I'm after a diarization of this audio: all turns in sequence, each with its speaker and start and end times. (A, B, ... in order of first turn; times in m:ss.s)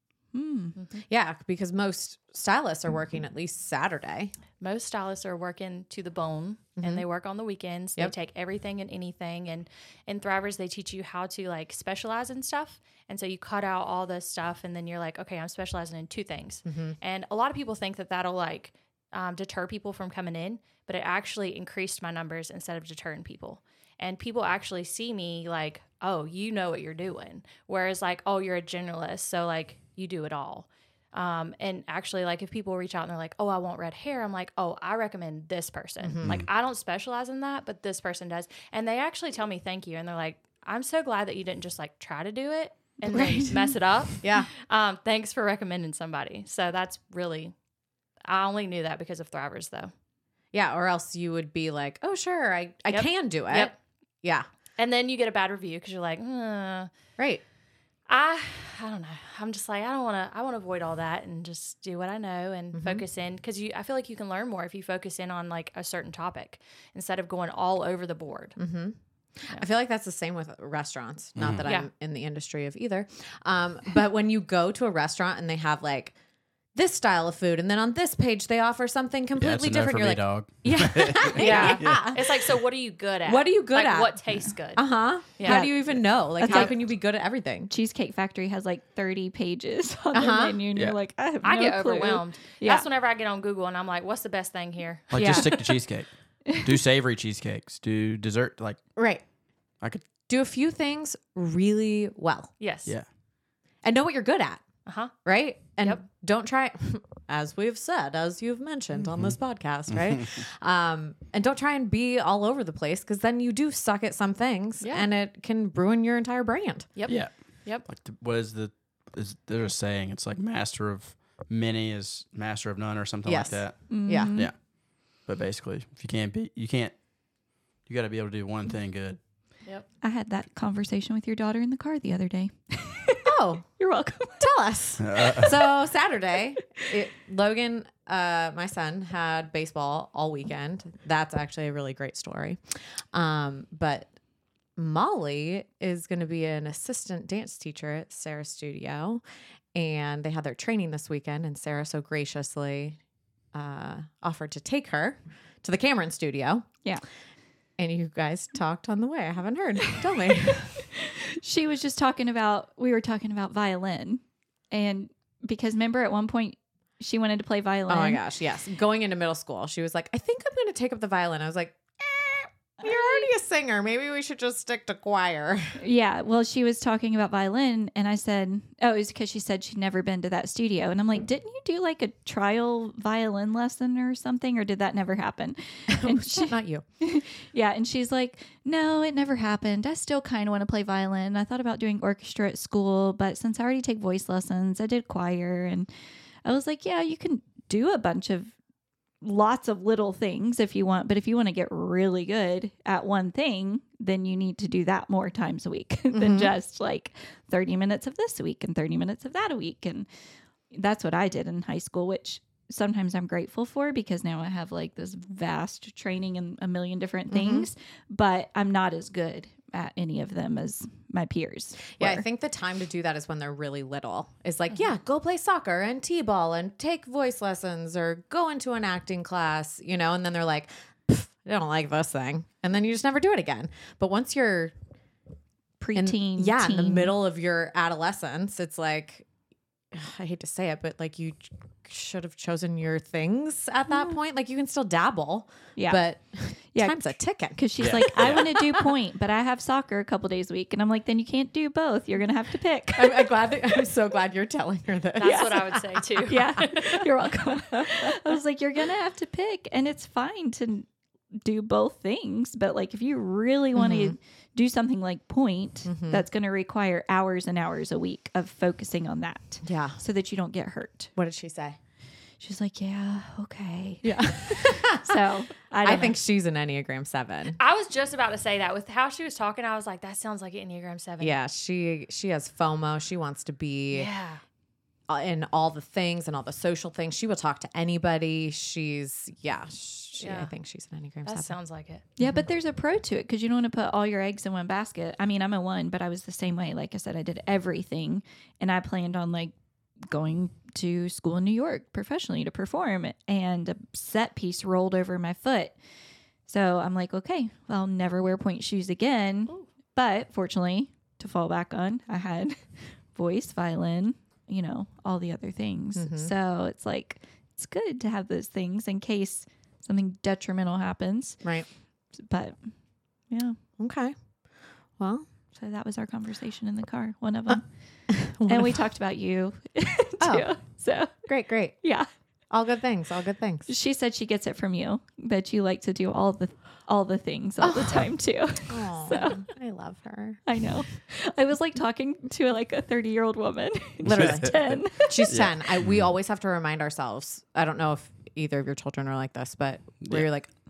0:00.3-0:00.8 A
0:01.1-0:04.3 B
0:04.6-0:47.5 C
0:06.8-0:07.0 B
0:16.7-0:17.0 B
0:36.0-0:36.4 B
0:43.1-0:43.6 A
0:44.2-0:44.5 B
0:48.2-0:49.9 C
0:50.5-0:54.5 B
0:52.9-0:53.8 C
0:54.8-0:56.9 C
0:57.2-0:57.4 B
0:58.1-1:08.6 C
1:02.7-1:03.0 B
1:08.6-1:16.2 B
1:11.4-1:11.7 D
1:16.8-1:22.4 B
1:19.4-1:22.0 D
1:21.3-1:25.7 C
1:23.3-1:24.2 B
1:24.7-1:27.7 B
1:25.5-1:25.8 A
1:26.4-1:26.7 A
1:26.4-1:26.7 C
1:27.7-1:32.9 A
1:30.1-1:30.6 B
1:31.4-1:35.4 C
1:35.1-1:38.9 D
1:35.2-1:35.7 A
1:39.0-1:39.2 B
1:39.8-1:40.1 D
1:40.3-1:42.5 B
1:42.6-1:42.9 C
1:43.8-1:44.6 B
1:44.9-1:45.1 C
1:45.2-1:56.9 B
1:49.9-1:50.3 D
1:54.8-1:55.1 C
1:57.0-1:57.8 C
1:57.1-2:04.6 D
2:03.2-2:04.4 B
2:03.9-2:04.5 A
2:05.3-2:07.0 D
2:07.9-2:09.2 D
2:10.0-2:14.5 A
2:13.2-2:13.6 B
2:14.4-2:24.1 B
2:15.0-2:15.5 D
2:24.8-2:29.2 B
2:29.7-2:33.0 B
2:33.5-2:36.7 B
2:37.8-2:40.8 B
2:40.9-2:48.2 A
2:47.9-2:55.8 B
2:52.8-2:53.2 A
2:55.8-3:15.9 A
3:05.9-3:06.8 B
3:16.4-3:18.5 A
3:19.2-3:30.1 A
3:26.1-3:26.5 B
3:30.7-3:42.2 A
3:37.3-3:37.7 B
3:42.0-3:54.7 B
3:55.8-3:57.1 A
3:56.0-3:59.3 B
3:59.9-4:08.9 B
4:05.8-4:06.0 A
4:06.7-4:13.4 A
4:07.8-4:08.5 D
4:12.9-4:15.9 B
4:15.2-4:17.1 C
4:15.3-4:15.6 A
4:16.3-4:20.9 A
4:21.4-4:31.1 A
4:23.8-4:24.2 B
4:25.8-4:26.2 B
4:29.6-4:30.0 B
4:31.2-4:31.8 B
4:32.4-4:36.2 A
4:34.0-4:35.2 B
4:35.8-4:37.6 B
4:37.6-4:41.4 C
4:41.2-4:44.1 B
4:43.9-4:44.4 C
4:45.1-4:51.6 B
4:50.2-4:50.5 C
4:51.2-4:52.0 C
4:52.2-4:59.5 A
4:52.2-4:52.5 B
5:00.0-5:05.7 A
5:06.5-5:12.6 A
5:13.1-5:21.4 A
5:16.0-5:16.3 B
5:22.2-5:22.6 A
5:23.3-5:23.6 A
5:23.8-5:24.1 B
5:25.0-5:25.3 B
5:25.6-5:31.2 A
5:28.1-5:28.8 B
5:30.2-5:30.5 B
5:31.3-5:31.8 B
5:32.5-5:33.7 B
5:33.7-5:39.4 A
5:37.6-5:38.1 B
5:38.7-5:40.4 B
5:40.5-5:45.2 A
5:44.0-5:44.6 D
5:44.1-5:50.5 B
5:45.3-5:46.0 D